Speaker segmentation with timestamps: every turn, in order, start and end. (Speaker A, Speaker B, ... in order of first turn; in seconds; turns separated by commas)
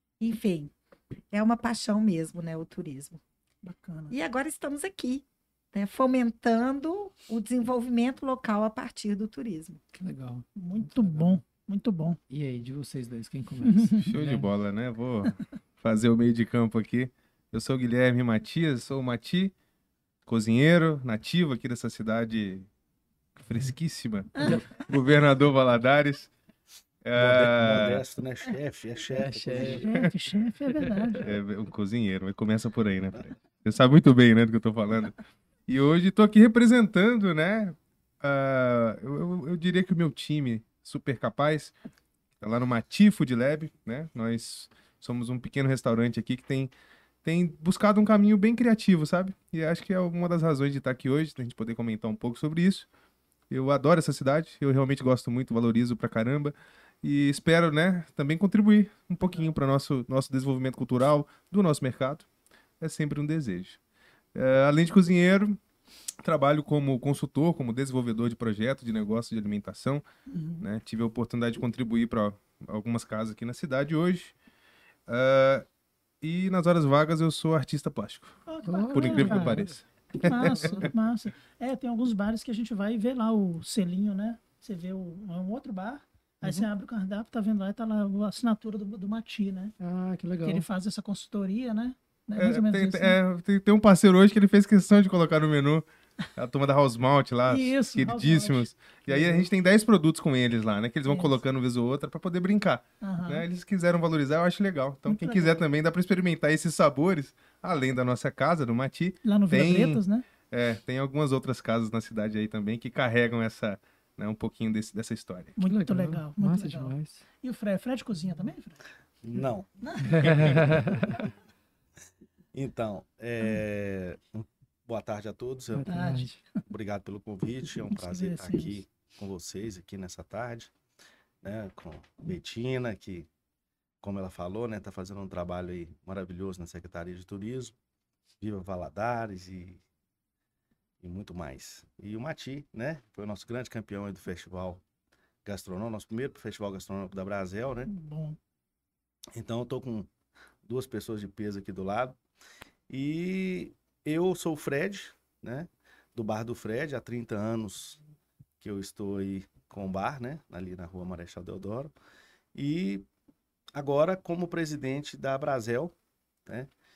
Speaker A: 0.2-0.7, Speaker A: 1.3-3.2, Speaker B: 3.6-4.1, Speaker A: 4.1-9.8, Speaker C: 9.9-11.4, Speaker B: 10.6-12.2, Speaker C: 12.3-14.5, Speaker B: 13.6-14.1, Speaker D: 14.0-19.5, Speaker D: 20.3-22.7, Speaker D: 23.4-26.3, Speaker C: 24.4-24.7, Speaker D: 27.0-28.1, Speaker E: 27.2-29.9, Speaker C: 29.2-29.9, Speaker B: 29.5-31.3, Speaker C: 30.7-31.2, Speaker D: 31.2-41.7, Speaker D: 42.4-46.7, Speaker D: 47.2-52.9, Speaker D: 53.5-62.3, Speaker D: 62.8-63.8, Speaker D: 64.3-65.6, Speaker D: 66.2-70.0, Speaker B: 70.3-70.7, Speaker D: 70.6-74.3, Speaker D: 75.1-75.7, Speaker D: 76.2-80.9, Speaker B: 78.5-79.6, Speaker C: 78.6-79.8, Speaker B: 80.2-89.7, Speaker C: 80.3-80.9, Speaker C: 86.4-86.7, Speaker C: 89.8-90.7, Speaker B: 90.4-93.2, Speaker D: 92.4-115.6, Speaker B: 97.5-99.5, Speaker B: 101.1-101.4, Speaker B: 103.0-103.5, Speaker B: 105.1-105.6, Speaker B: 109.2-110.3, Speaker B: 115.6-118.8, Speaker C: 115.6-117.2, Speaker E: 119.2-120.4, Speaker B: 119.8-120.8, Speaker C: 120.0-121.3, Speaker D: 120.2-120.7, Speaker E: 122.5-126.0, Speaker C: 125.8-126.4, Speaker B: 125.9-126.6, Speaker E: 126.7-130.7, Speaker B: 127.9-128.8, Speaker E: 131.4-133.3, Speaker E: 134.0-137.8, Speaker E: 138.4-139.8, Speaker E: 141.0-144.8, Speaker E: 145.4-147.9, Speaker B: 147.9-148.4, Speaker E: 149.3-150.1, Speaker E: 150.7-152.2, Speaker E: 152.9-158.0, Speaker E: 158.6-161.9, Speaker E: 162.6-163.1, Speaker E: 163.8-165.9